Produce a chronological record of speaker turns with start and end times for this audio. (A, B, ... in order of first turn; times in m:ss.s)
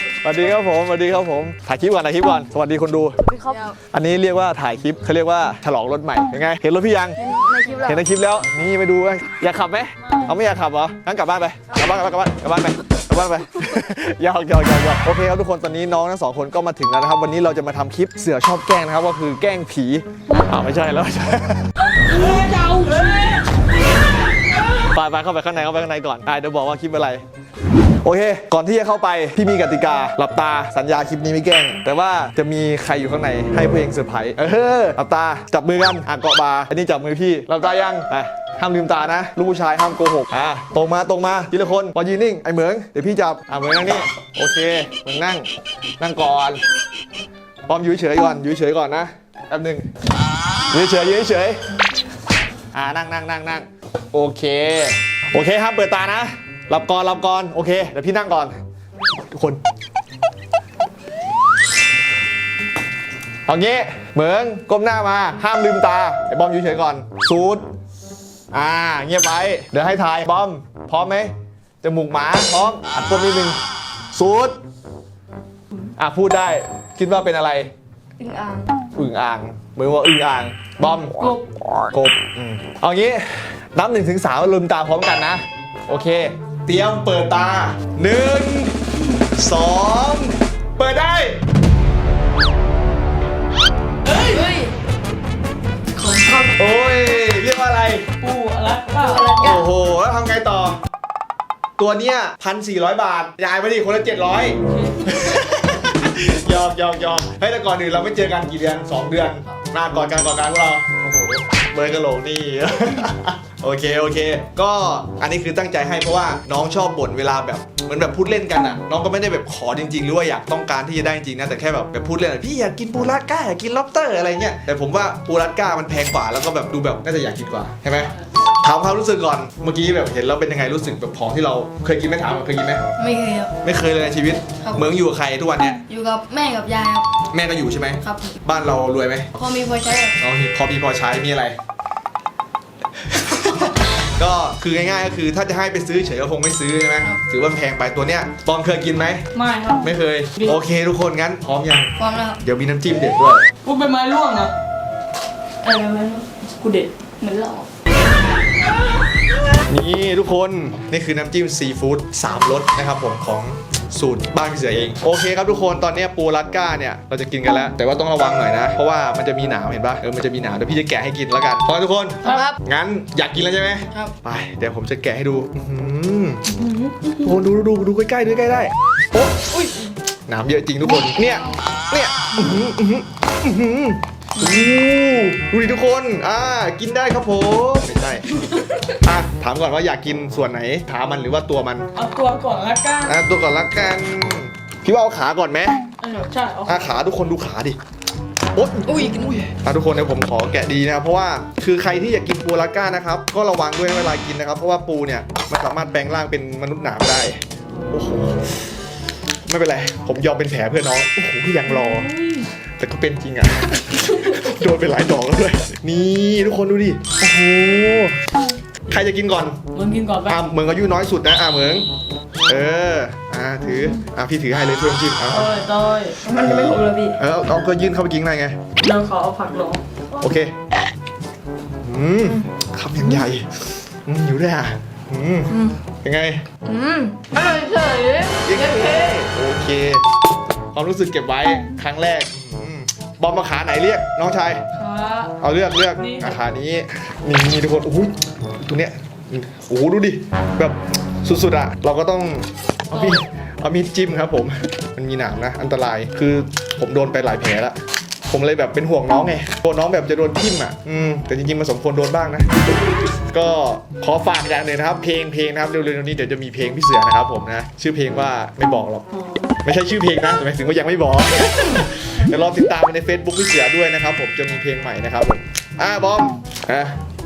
0:00.2-0:03.2 A
0:03.2-0:03.8 B
0:03.8-0:07.2 A
0:07.2-0:08.1 B
0:07.8-0:21.7 A
0:22.0-0:23.5 C
0:24.8-0:27.2 A
0:28.0-0:45.5 A
0:46.0-0:46.6 A
0:47.7-0:49.9 A
0:50.7-0:51.7 A
0:52.7-0:58.6 A
0:59.3-0:59.6 A
1:03.5-1:07.6 A
1:08.5-1:13.6 A
1:14.1-1:14.6 A
1:16.0-1:17.7 A
1:18.2-1:18.8 B
1:19.0-1:21.3 A
1:21.8-1:31.4 A
1:34.1-1:34.5 C
1:34.1-1:34.8 B
1:36.0-1:36.6 B
1:36.6-1:38.1 A
1:38.2-1:39.4 C
1:39.0-1:39.7 B
1:39.4-1:40.8 A
1:41.8-2:12.8 A
1:44.7-1:45.2 C
2:13.0-2:13.5 B
2:13.6-2:15.8 A
2:14.6-2:14.9 B
2:15.8-2:17.1 B
2:17.3-2:19.3 A
2:18.0-2:18.4 B
2:19.4-2:20.2 B
2:20.2-2:21.6 A
2:23.1-2:29.3 A
2:29.3-2:30.6 C
2:29.8-2:33.4 A
2:32.0-2:32.4 B
2:33.6-2:34.5 C
2:35.6-2:36.9 C
2:37.2-2:37.7 B
2:39.6-2:56.5 A
2:52.2-2:52.6 B
2:56.5-2:57.2 C
2:57.2-2:59.4 A
2:59.5-2:59.9 C
3:00.3-3:11.9 A
3:04.4-3:04.7 B
3:12.0-3:13.2 C
3:13.0-3:15.8 A
3:16.0-3:16.9 C
3:16.7-3:17.8 A
3:18.6-3:28.7 A
3:18.8-3:19.5 B
3:29.5-3:32.1 A
3:31.8-3:32.5 C
3:32.8-3:38.2 A
3:38.9-3:39.6 A
3:39.7-3:40.4 C
3:40.3-3:41.9 A
3:42.5-3:45.5 A
3:45.3-3:46.2 C
3:46.2-3:47.2 B
3:46.4-3:48.6 A
3:48.8-3:49.8 C
3:50.2-3:50.6 A
3:51.8-3:56.5 A
3:55.5-3:55.8 B
3:56.6-3:59.2 B
3:58.4-4:00.0 A
4:00.7-4:04.6 A
4:04.7-4:05.4 C
4:05.4-4:29.0 A
4:06.0-4:06.4 C
4:12.9-4:13.2 C
4:29.1-4:29.6 C
4:29.6-4:37.0 A